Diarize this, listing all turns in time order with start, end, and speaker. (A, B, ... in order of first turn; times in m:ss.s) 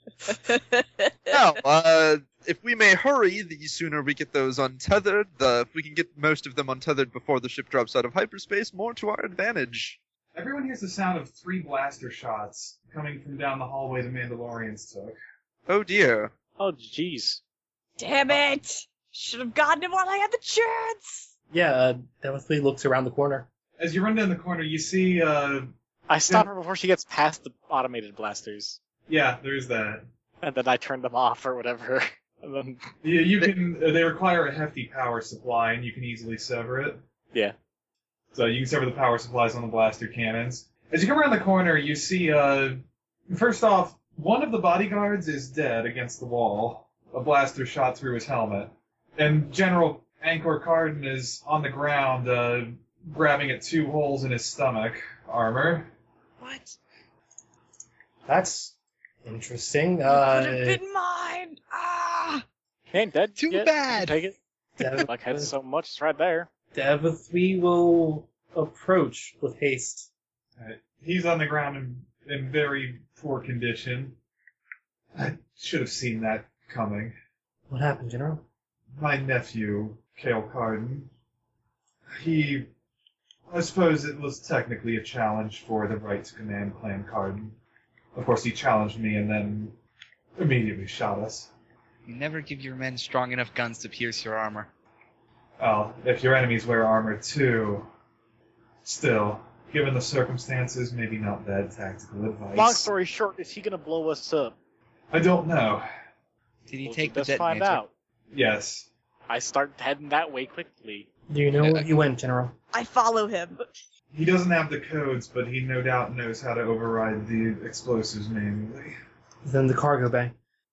0:00.3-0:01.5 A
0:01.3-0:10.0 B
0:10.3-0:15.2 C
0:15.7-0:16.3 B
0:16.6-0:17.4 D
0:18.0-0:21.3 A
0:21.5-0:23.5 E
0:23.8-0:25.7 C
0:26.1-0:28.8 D
0:29.1-0:30.0 C
0:30.4-0:32.9 D
0:33.0-0:37.0 C
0:38.3-0:55.9 C
0:56.4-0:56.8 F
0:58.3-0:58.7 E
0:59.2-1:00.8 E
1:00.0-1:02.4 A
1:02.9-1:06.5 D
1:03.4-1:04.2 F
1:04.8-1:05.5 E
1:06.7-1:10.1 E
1:10.6-1:14.2 C
1:15.1-1:17.1 C
1:17.7-1:18.4 E
1:19.0-1:21.1 C
1:22.1-1:22.7 C
1:23.5-1:27.6 C
1:28.1-1:29.8 C
1:30.4-1:31.5 C
1:32.0-1:34.7 F
1:35.6-1:37.9 C
1:38.8-1:42.9 C
1:42.5-1:44.6 D
1:45.1-1:45.8 C
1:46.7-1:47.8 F
1:46.8-1:47.9 D
1:48.3-1:48.9 C
1:49.3-1:51.1 D
1:51.3-1:52.6 E
1:51.6-1:52.0 F
1:52.7-1:53.7 A
1:54.1-1:59.0 C
1:59.4-2:00.4 E